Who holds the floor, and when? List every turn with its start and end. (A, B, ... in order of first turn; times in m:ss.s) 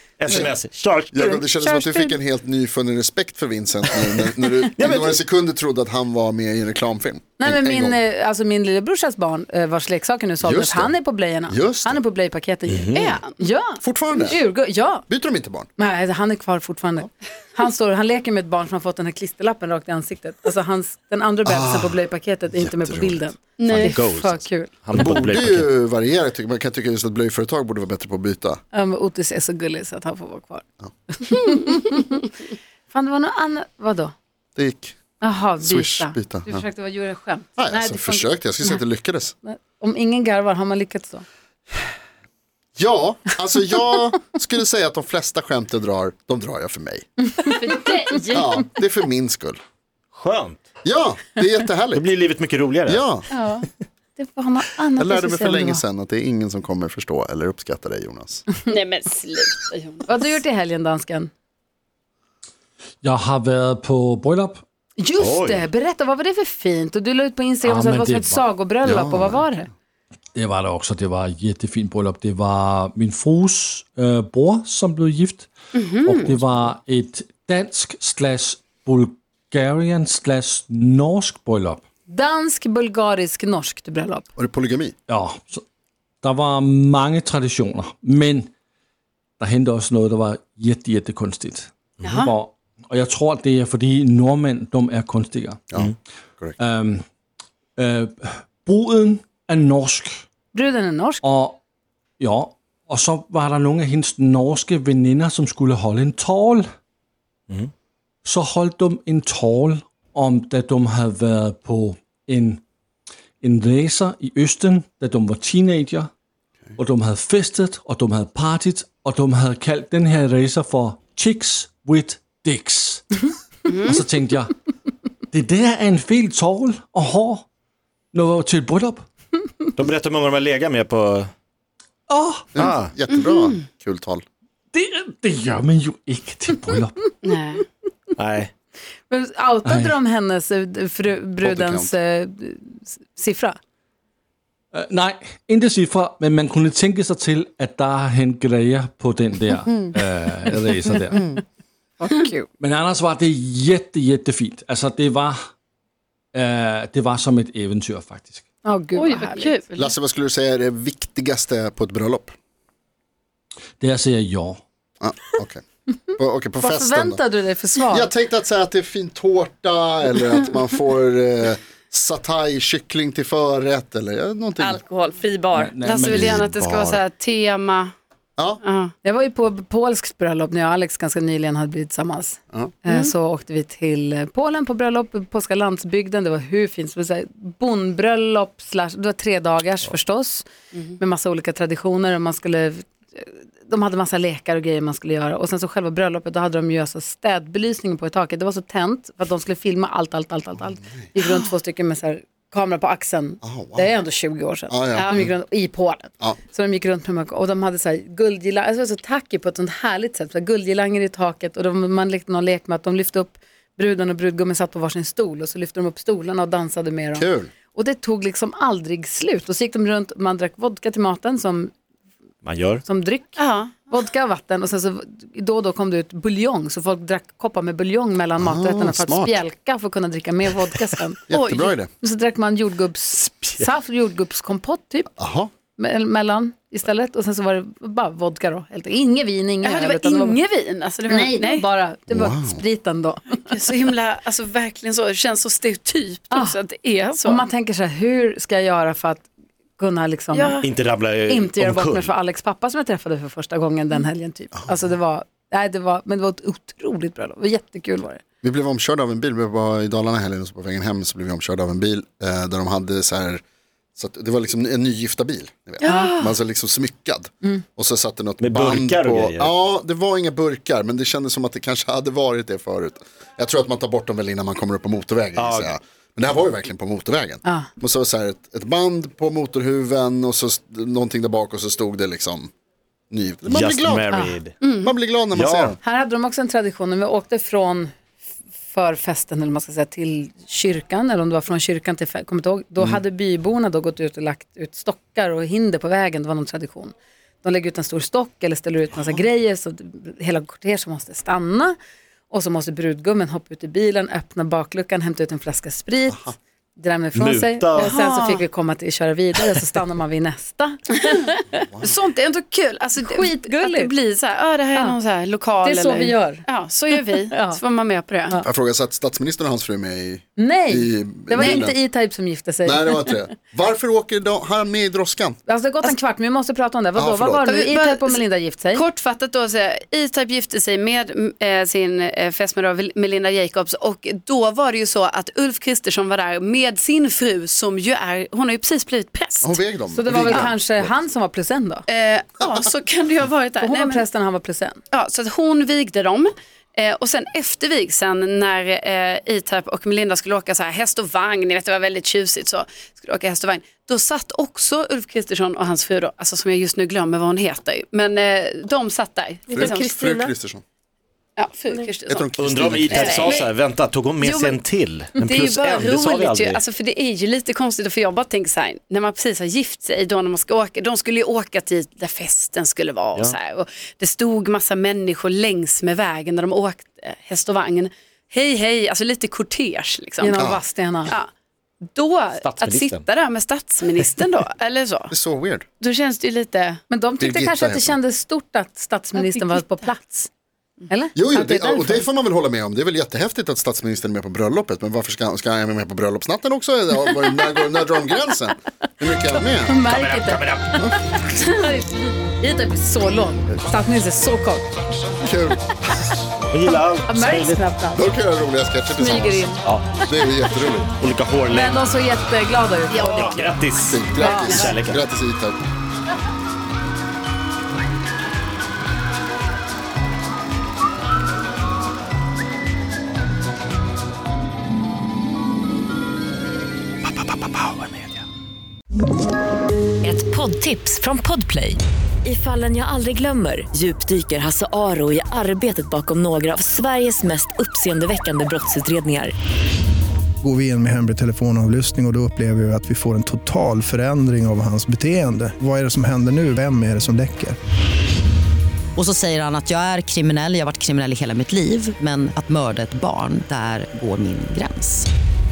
0:00.2-0:01.4 A
0:00.3-0:00.5 B
0:01.1-0:08.0 B
0:01.6-0:02.2 C
0:04.8-0:05.2 A
0:07.4-0:15.1 C
0:10.4-0:11.0 B
0:11.5-0:12.0 B
0:12.7-0:13.2 A
0:13.0-0:13.4 D
0:13.8-0:14.4 B
0:15.1-0:15.7 B
0:15.8-0:24.7 C
0:21.4-0:23.3 B
0:23.6-0:24.0 D
0:23.7-0:25.7 A
0:24.9-0:28.6 B
0:28.7-0:32.3 C
0:32.9-0:34.1 C
0:34.6-0:35.0 B
0:35.2-0:38.8 C
0:35.6-0:36.6 B
0:37.6-0:39.4 B
0:39.4-0:41.2 C
0:42.8-0:47.1 B
0:47.3-0:47.7 C
0:47.5-0:48.5 D
0:48.3-0:49.6 B
0:50.1-0:50.6 A
0:50.8-0:52.1 B
0:51.9-0:53.1 A
0:52.9-0:53.3 B
0:53.3-0:55.8 C
0:55.0-0:58.5 B
0:58.7-1:00.4 D
1:00.1-1:01.3 C
1:03.0-1:04.6 E
1:05.0-1:09.7 C
1:05.2-1:05.7 A
1:07.6-1:08.4 E
1:08.8-1:09.5 B
1:10.4-1:21.8 E
1:15.7-1:16.4 D
1:22.1-1:24.3 C
1:24.4-1:25.0 B
1:25.1-1:25.6 E
1:26.2-1:28.5 E
1:29.4-1:35.7 E
1:32.0-1:32.3 D
1:35.7-1:36.6 B
1:36.6-1:37.0 E
1:37.8-1:40.3 E
1:40.5-1:41.2 C
1:41.2-1:41.6 E
1:42.2-1:46.7 E
1:48.2-1:52.6 E
1:53.4-1:56.1 E
1:56.8-2:04.6 E
2:03.7-2:04.0 D
2:05.3-2:07.5 E
2:08.1-2:09.1 E
2:09.8-2:11.3 A
2:12.1-2:12.5 E
2:12.5-2:14.2 B
2:12.6-2:12.9 A
2:13.2-2:13.6 D
2:14.7-2:17.1 E
2:17.2-2:17.6 D
2:18.2-2:18.5 A
2:19.1-2:23.6 C
2:19.6-2:20.0 E
2:21.4-2:21.9 B
2:24.7-2:31.3 E
2:32.0-2:32.4 C
2:32.6-2:35.5 E
2:36.3-2:38.4 E
2:38.6-2:39.5 C
2:39.0-2:39.9 D
2:39.8-2:42.4 B
2:43.8-2:44.6 E
2:45.0-2:45.6 B
2:46.2-2:47.2 B
2:46.6-2:48.1 C
2:47.9-2:54.8 B
2:54.6-2:55.8 F
2:55.5-2:56.6 E
2:55.8-2:57.9 D
2:56.1-2:57.0 B
2:58.6-2:58.9 D
2:59.0-3:10.5 C
3:11.0-3:41.7 C
3:23.4-3:23.9 B
3:24.7-3:25.3 B
3:25.0-3:25.2 D
3:37.2-3:37.5 B
3:42.4-3:42.8 A
3:42.8-3:43.4 C
3:43.4-3:43.8 D
3:43.9-3:51.2 C
3:48.4-3:49.4 B
3:51.3-3:51.9 B
3:51.3-3:51.8 D
3:52.0-3:55.1 C
3:55.2-3:55.5 B
3:55.8-4:00.4 C
3:59.6-4:01.6 D
4:01.1-4:03.6 C
4:02.1-4:02.6 B
4:03.5-4:07.4 D
4:07.3-4:09.3 C
4:09.8-4:10.6 C
4:10.3-4:10.6 D
4:10.6-4:12.1 A
4:11.3-4:18.2 C
4:18.4-4:23.4 B
4:24.0-4:42.5 B
4:25.8-4:26.3 D
4:25.9-4:26.2 C
4:28.4-4:29.5 A
4:35.4-4:35.7 A
4:43.1-4:44.2 B
4:43.5-4:44.6 A
4:44.1-4:44.4 C
4:44.6-4:44.9 D
4:44.8-4:45.8 B
4:45.3-4:45.8 A
4:45.8-4:47.9 C
4:48.7-5:01.8 C
5:02.3-5:11.6 C
5:07.2-5:08.0 A
5:07.8-5:08.4 D
5:11.8-5:18.4 D
5:13.0-5:13.9 C
5:15.6-5:16.4 C
5:17.3-5:17.6 C
5:18.4-5:21.8 B
5:20.4-5:23.2 C
5:22.6-5:25.4 B
5:25.5-5:28.8 C
5:27.0-5:27.5 B
5:27.5-5:28.2 D
5:28.7-5:39.6 D
5:39.4-5:40.9 B
5:39.9-5:41.8 C
5:40.1-5:40.4 D
5:41.9-5:44.0 D
5:43.6-5:44.8 C
5:44.9-6:00.1 D
5:59.5-6:00.3 F
5:59.5-6:00.6 B
6:01.4-6:02.3 D
6:02.1-6:03.4 B
6:02.4-6:06.6 A
6:02.9-6:03.5 D
6:04.2-6:04.6 D
6:05.2-6:20.4 D
6:20.2-6:21.1 C
6:21.9-6:25.1 D
6:22.4-6:23.0 A
6:25.1-6:25.6 B
6:25.8-6:26.8 D
6:26.9-6:30.3 C
6:27.2-6:28.0 B
6:29.2-6:29.8 D
6:30.9-6:32.1 C
6:31.2-6:39.8 B
6:39.4-6:44.7 C
6:39.9-6:40.9 A
6:45.2-6:46.1 B
6:46.5-6:47.6 A
6:46.7-6:48.1 C
6:47.9-6:49.5 B
6:48.9-6:49.6 C
6:50.0-6:50.9 B
6:51.0-6:51.8 A
6:51.5-6:53.4 C
6:52.9-6:54.8 D
6:53.2-6:55.0 A
6:53.8-6:55.6 B
6:54.2-6:54.7 C
7:10.0-7:19.3 G
7:20.4-7:27.6 H
7:29.0-7:35.1 I